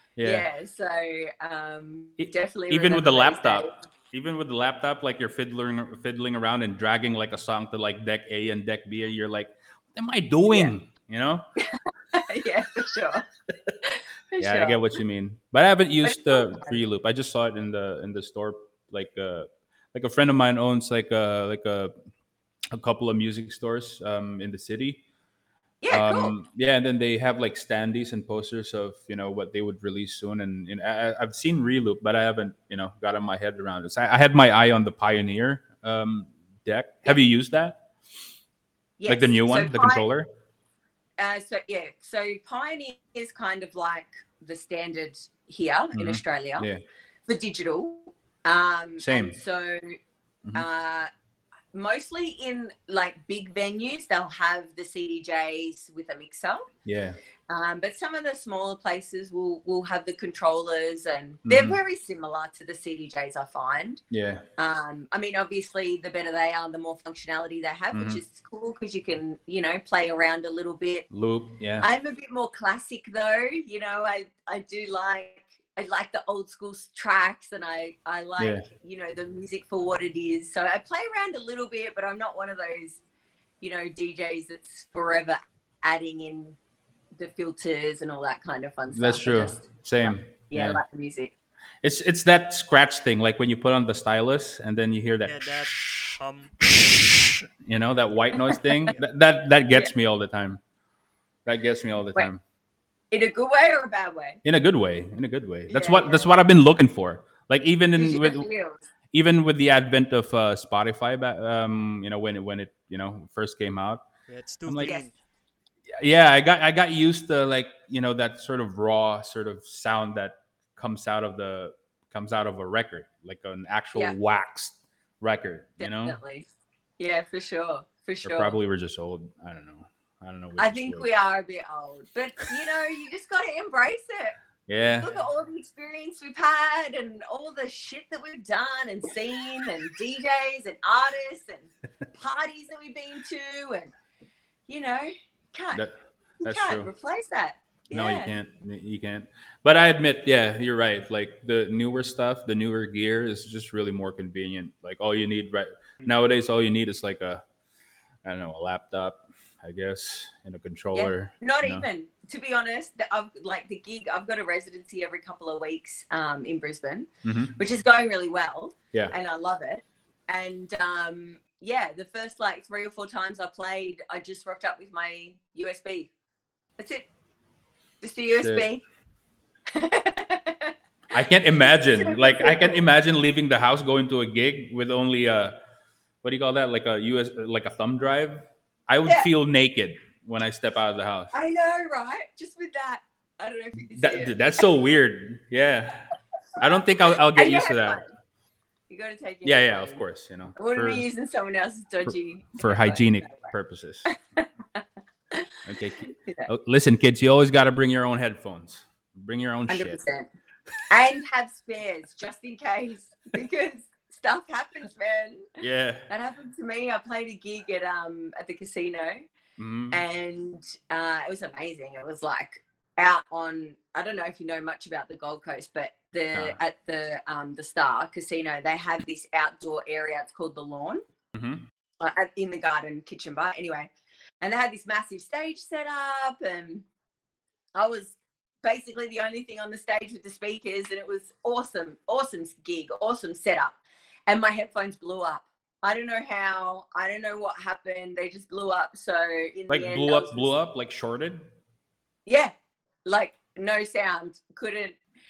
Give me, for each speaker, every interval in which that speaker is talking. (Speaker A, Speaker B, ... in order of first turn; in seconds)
Speaker A: 0.2-0.5, 2.2-11.4, 14.4-21.9, 22.7-25.0, 25.9-37.8, 39.1-40.3, 46.0-46.8, 49.0-49.4, 56.9-57.2, 61.5-61.8, 64.1-64.4, 67.9-68.2, 71.1-71.9, 78.4-78.7, 88.9-90.8, 91.8-96.0, 96.7-100.6, 101.5-102.4, 104.4-108.5, 109.1-114.0, 114.7-115.0, 116.0-126.2, 128.2-131.1, 134.7-135.1, 145.7-146.9, 147.9-157.4, 158.2-161.8, 167.2-167.6, 178.4-178.7, 181.1-185.6, 186.2-191.3, 194.0-198.0, 199.4-201.1, 202.1-204.1, 205.7-210.0, 215.6-216.1, 219.6-220.0, 231.3-231.7, 249.7-251.5
Speaker B: 0.2-3.8, 10.5-10.7, 11.6-13.3, 13.8-15.0, 16.0-16.8, 25.8-26.3, 39.0-40.0, 41.2-46.7, 47.3-50.0, 50.5-51.1, 51.7-56.7, 57.5-64.0, 64.6-71.1, 71.8-83.0, 83.6-86.6, 87.2-91.3, 103.1-104.4, 105.7-106.3, 108.0-108.8, 114.8-115.1, 125.8-126.5, 127.0-128.6, 130.6-134.3, 135.0-143.9, 144.7-145.8, 146.4-148.3, 160.9-176.1, 176.8-177.1, 178.0-178.8, 179.7-180.7, 181.7-182.8, 191.3-194.4, 197.3-198.1, 198.9-200.0, 200.6-203.5, 204.1-206.5, 209.7-210.3, 210.9-215.5, 216.1-219.3, 219.9-231.0, 232.0-233.9, 234.4-236.8, 237.8-250.5, 252.3-252.5, 253.1-255.0
Speaker C: 95.2-96.7, 114.3-115.1